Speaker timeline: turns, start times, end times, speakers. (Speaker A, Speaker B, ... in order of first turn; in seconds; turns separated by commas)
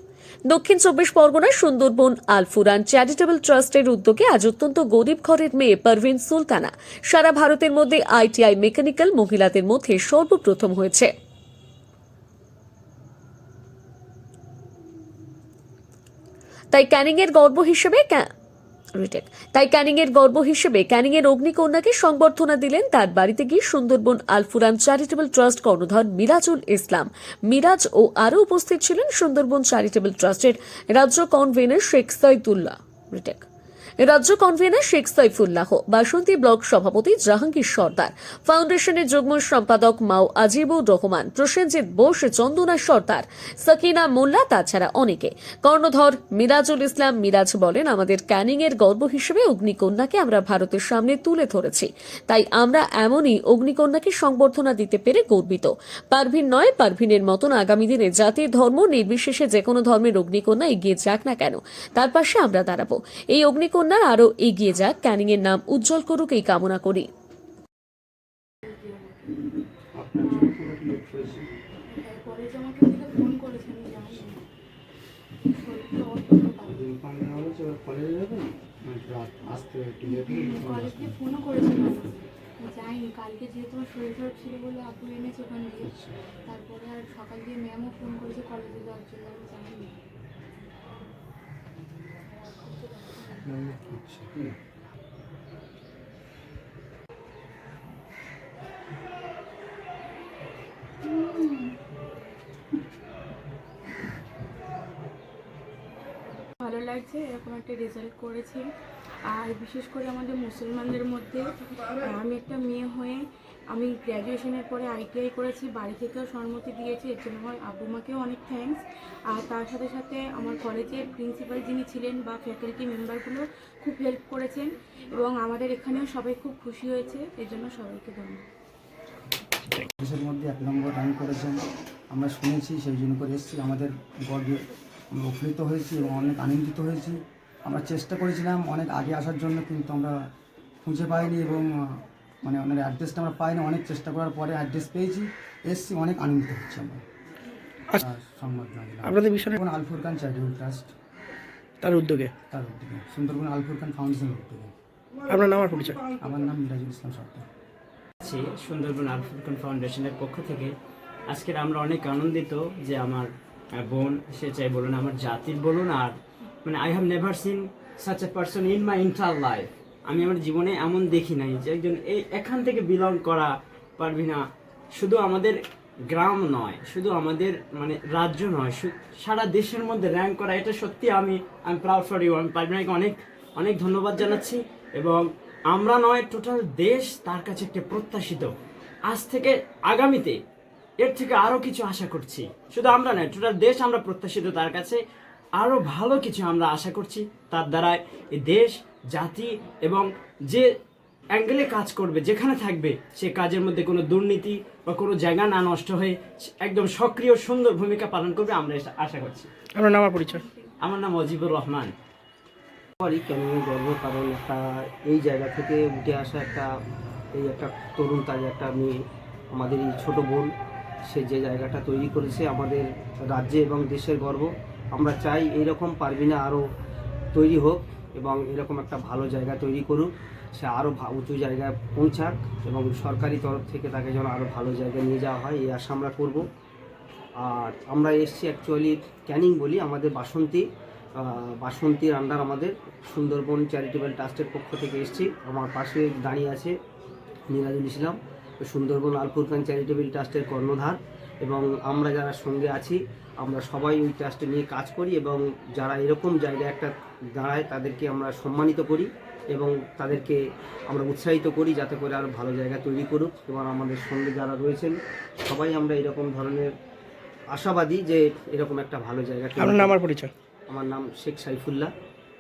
Speaker A: 0.5-11.1, Speaker A: 16.7-18.3, Speaker A: 19.0-33.5, Speaker A: 34.0-67.1, Speaker B: 68.6-69.2, Speaker C: 69.9-71.4, Speaker B: 71.9-74.3, Speaker B: 75.6-76.8, Speaker C: 76.7-81.2, Speaker B: 80.1-85.9, Speaker C: 85.8-86.1, Speaker B: 86.5-90.0, Speaker B: 92.3-93.5, Speaker C: 93.4-94.5, Speaker B: 101.0-101.7, Speaker B: 106.6-108.6, Speaker B: 109.3-111.4, Speaker B: 112.0-128.4, Speaker C: 130.0-140.1, Speaker C: 140.8-141.8, Speaker C: 142.4-147.0, Speaker C: 148.0-150.9, Speaker D: 149.0-149.5, Speaker D: 151.8-152.3, Speaker C: 152.5-154.7, Speaker D: 155.3-156.0, Speaker C: 156.1-157.4, Speaker E: 158.2-160.7, Speaker E: 161.3-174.4, Speaker E: 174.9-175.6, Speaker E: 176.1-188.5, Speaker E: 189.1-190.4, Speaker E: 191.0-195.0, Speaker E: 195.6-200.6, Speaker E: 201.3-209.5, Speaker D: 209.7-210.4, Speaker E: 210.8-211.9, Speaker F: 213.0-216.7, Speaker F: 217.3-218.9, Speaker F: 219.5-220.5, Speaker F: 221.1-226.6, Speaker F: 227.3-236.4, Speaker F: 237.4-240.6, Speaker F: 241.2-246.7, Speaker F: 247.5-266.7, Speaker F: 267.5-270.0, Speaker D: 269.6-270.3, Speaker F: 270.7-271.9